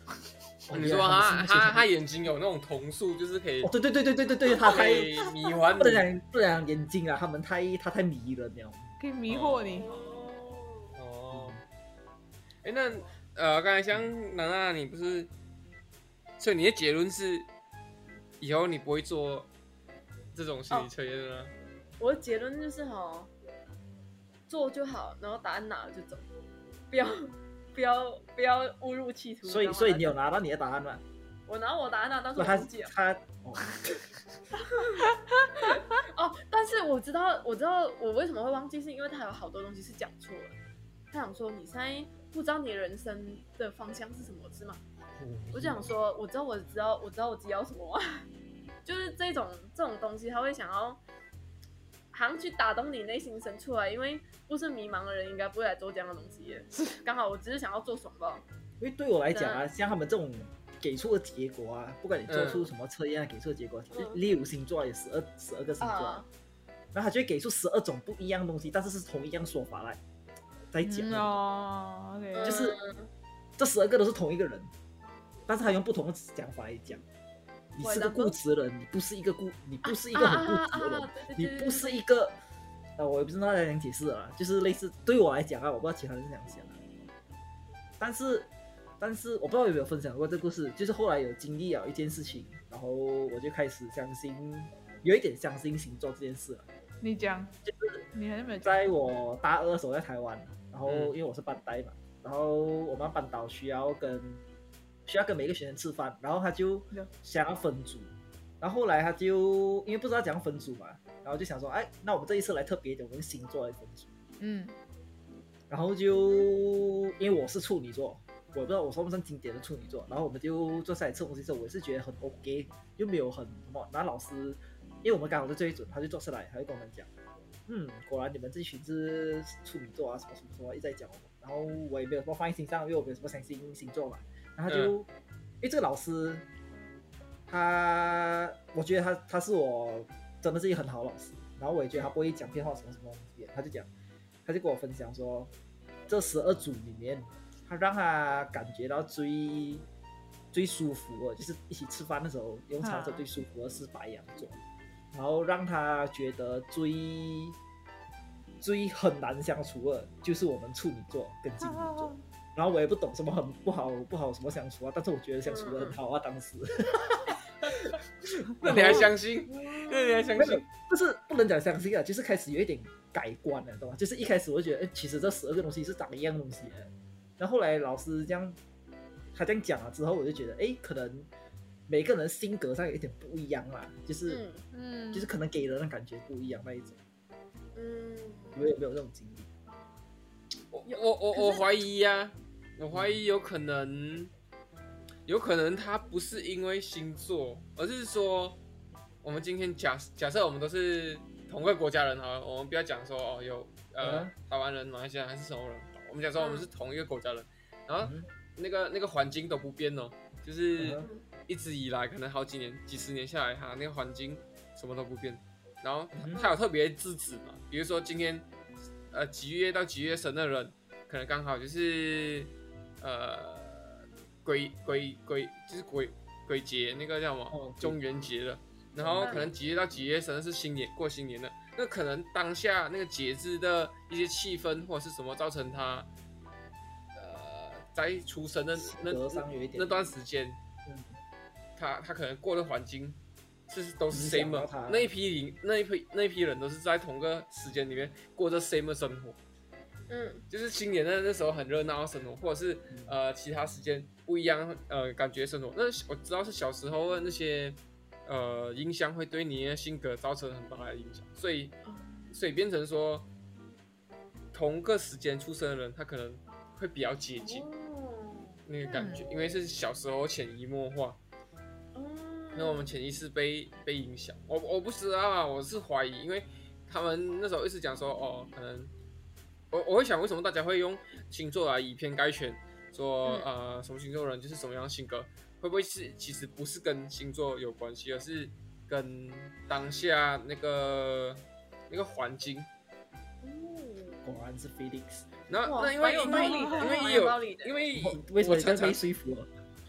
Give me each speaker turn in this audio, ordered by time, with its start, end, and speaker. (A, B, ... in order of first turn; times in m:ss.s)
0:00.6-0:01.9 A
0:00.7-0:03.7 B
0:03.6-0:08.9 A
0:04.6-0:06.1 B
0:09.0-0:09.9 C
0:09.3-0:09.9 B
0:09.7-0:10.9 D
0:11.0-0:11.6 B
0:11.3-0:11.6 A
0:12.6-0:15.3 B
0:16.4-0:17.5 B
0:18.4-0:19.5 B
0:20.3-0:21.5 B
0:22.0-0:23.3 D
0:24.5-0:26.2 D
0:26.9-0:30.1 D
0:29.4-0:31.0 A
0:31.5-0:32.9 D
0:32.4-0:33.9 A
0:34.7-0:35.1 D
0:35.6-0:40.5 D
0:41.1-0:44.8 D
0:45.2-0:46.0 A
0:45.5-0:48.2 D
0:48.8-0:51.0 D
0:52.1-0:58.4 D
0:58.8-1:06.2 A
0:59.3-0:59.6 D
1:02.3-1:02.7 B
1:03.9-1:04.2 D
1:05.8-1:06.3 D
1:06.9-1:10.0 A
1:10.7-1:11.4 A
1:10.8-1:12.6 C
1:12.3-1:13.1 D
1:12.4-1:12.8 A
1:13.6-1:14.7 A
1:15.5-1:17.0 A
1:17.8-1:22.4 A
1:17.8-1:18.4 D
1:19.8-1:22.0 D
1:23.0-1:27.0 A
1:28.0-1:36.7 A
1:37.0-1:37.5 C
1:37.6-1:38.1 A
1:38.1-1:38.9 C
1:38.6-1:44.4 A
1:40.8-1:41.1 B
1:45.0-1:54.2 A
1:54.4-1:54.7 C
1:55.7-2:07.1 A
1:56.1-1:56.5 D
2:07.7-2:15.1 A
2:14.7-2:14.9 B
2:15.6-2:16.4 A
2:17.5-2:23.9 A
2:24.4-2:25.5 A
2:26.1-2:29.8 A
2:30.5-2:34.6 A
2:32.8-2:33.2 C
2:35.1-2:37.6 A
2:38.6-2:49.1 A
2:41.6-2:42.2 C
2:45.4-2:46.0 D
2:48.6-2:50.7 B
2:48.8-2:49.0 C
2:49.5-2:50.3 D
2:50.3-2:58.6 A
2:59.3-3:01.3 A
3:01.9-3:04.4 A
3:04.3-3:04.6 D
3:04.7-3:05.3 C
3:05.1-3:07.0 A
3:07.8-3:08.7 D
3:08.5-3:09.5 A
3:10.7-3:14.3 B
3:10.8-3:11.7 D
3:12.9-3:13.2 A
3:15.2-3:18.6 B
3:19.2-3:38.5 B
3:24.0-3:24.3 A
3:26.4-3:26.7 D
3:28.0-3:28.2 A
3:30.8-3:31.0 A
3:36.1-3:36.4 A
3:39.1-3:56.1 B
3:47.5-3:48.0 A
3:49.0-3:49.5 A
3:49.2-3:49.5 D
3:57.2-4:00.6 B
3:58.8-4:00.0 A
4:00.8-4:01.2 A
4:01.8-4:09.4 B
4:04.1-4:05.1 A
4:10.1-4:10.4 D
4:10.5-4:21.8 B
4:12.9-4:13.2 A
4:21.8-4:22.3 D
4:22.3-4:23.3 B
4:24.5-4:27.7 B
4:27.4-4:28.6 D
4:28.7-4:31.2 B
4:28.9-4:29.2 C
4:31.9-4:32.9 D
4:32.5-4:38.9 B
4:39.7-4:52.7 B
4:53.4-4:54.2 D
4:54.2-4:55.3 A
4:55.5-4:59.0 B
4:55.6-4:57.7 D
4:56.2-4:57.0 C
4:57.9-4:59.5 A